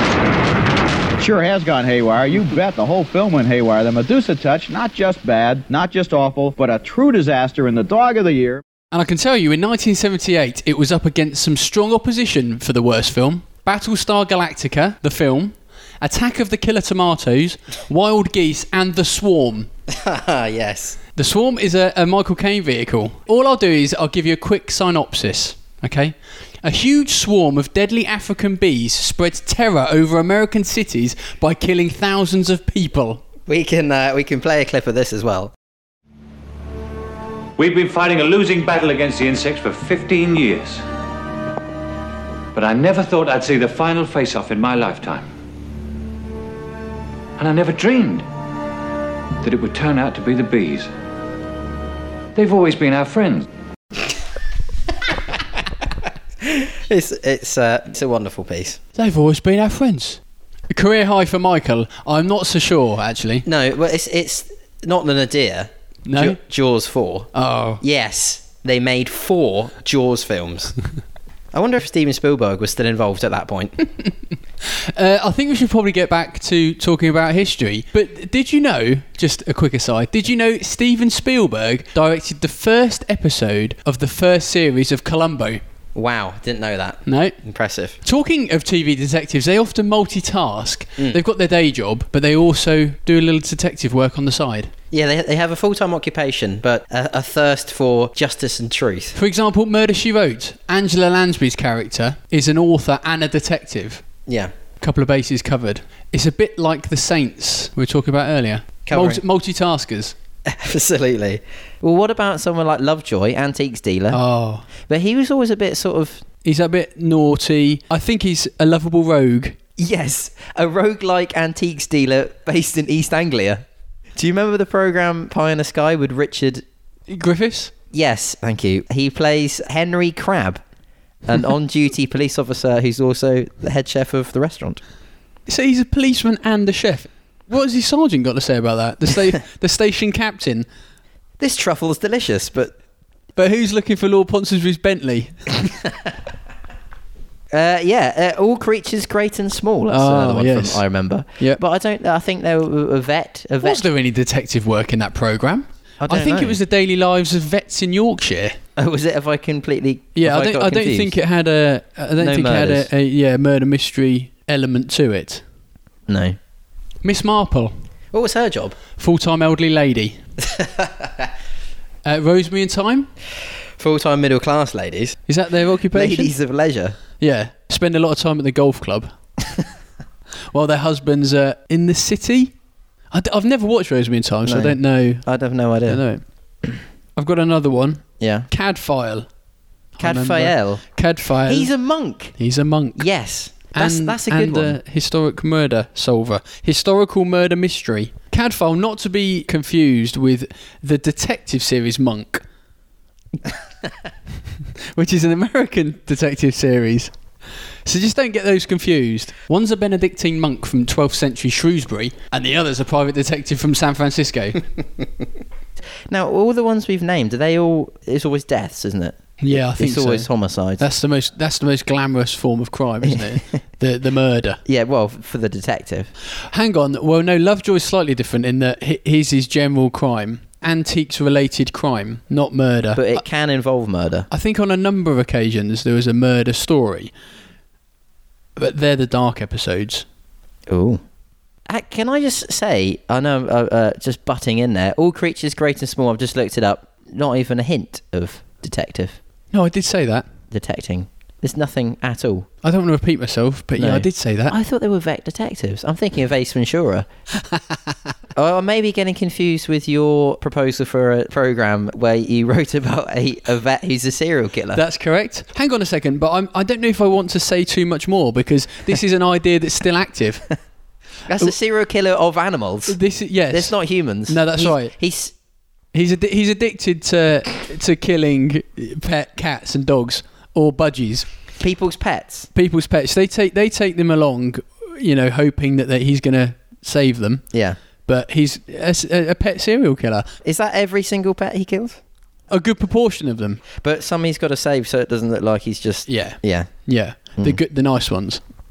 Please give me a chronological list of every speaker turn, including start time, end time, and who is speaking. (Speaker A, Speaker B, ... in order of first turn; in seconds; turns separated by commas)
Speaker A: 1.2-8.6, Speaker B: 8.9-19.7, Speaker C: 19.9-21.0, Speaker B: 21.2-33.2, Speaker C: 33.5-35.5, Speaker D: 37.6-40.8, Speaker D: 42.5-45.3, Speaker D: 47.4-48.2, Speaker D: 49.4-50.9, Speaker D: 52.4-53.5, Speaker C: 56.4-58.8, Speaker B: 59.0-63.5, Speaker C: 63.5-70.7, Speaker B: 66.1-66.4, Speaker B: 67.3-67.8, Speaker C: 71.5-73.7, Speaker B: 74.7-85.6, Speaker C: 86.0-88.0, Speaker B: 87.1-87.4, Speaker B: 88.0-94.7, Speaker C: 94.9-99.2, Speaker B: 99.2-104.0, Speaker B: 104.8-110.1, Speaker C: 108.9-109.2, Speaker C: 110.5-114.2, Speaker B: 114.1-114.7, Speaker C: 114.9-116.2, Speaker B: 116.4-119.6, Speaker C: 119.8-123.6, Speaker C: 124.2-126.6, Speaker B: 127.1-127.7, Speaker C: 127.9-130.6, Speaker C: 131.3-134.8, Speaker B: 135.5-140.7, Speaker C: 141.4-142.7, Speaker B: 143.4-145.8, Speaker C: 147.5-153.9, Speaker B: 149.9-150.8, Speaker B: 153.6-158.6, Speaker C: 156.0-156.6, Speaker C: 158.8-161.1, Speaker B: 160.2-165.4, Speaker C: 162.2-162.9, Speaker C: 166.1-166.4, Speaker B: 167.0-167.7, Speaker C: 168.1-168.8, Speaker B: 169.0-170.2, Speaker C: 170.5-171.2, Speaker B: 172.1-173.1, Speaker C: 173.8-175.2, Speaker B: 175.3-176.3, Speaker C: 175.9-176.9, Speaker B: 177.2-179.1, Speaker B: 180.5-182.5, Speaker B: 183.1-185.2, Speaker C: 184.4-186.0, Speaker B: 185.9-186.2, Speaker B: 187.2-189.3, Speaker C: 188.2-188.5, Speaker B: 190.0-191.7, Speaker C: 190.0-190.8, Speaker C: 191.5-192.4, Speaker B: 192.4-193.1, Speaker C: 193.0-194.8, Speaker B: 193.7-202.4, Speaker B: 204.9-207.1, Speaker B: 207.8-214.6, Speaker C: 216.1-220.9, Speaker B: 219.4-220.3, Speaker B: 220.8-224.6, Speaker C: 224.7-226.1, Speaker B: 226.5-233.2, Speaker C: 233.0-234.3, Speaker B: 234.3-237.1, Speaker B: 238.6-240.1, Speaker C: 240.7-241.0, Speaker C: 241.7-249.2, Speaker B: 249.5-250.3, Speaker C: 250.5-252.5, Speaker B: 252.6-254.6, Speaker C: 253.8-257.1, Speaker C: 258.4-264.8, Speaker B: 264.7-270.5, Speaker C: 271.3-273.0, Speaker B: 272.9-274.9, Speaker C: 273.5-275.3, Speaker B: 275.9-281.3, Speaker C: 281.6-282.5, Speaker B: 282.5-287.5, Speaker C: 287.5-287.8, Speaker B: 288.1-290.3, Speaker C: 290.4-292.0, Speaker B: 292.5-293.6, Speaker C: 293.8-296.7, Speaker B: 296.1-298.4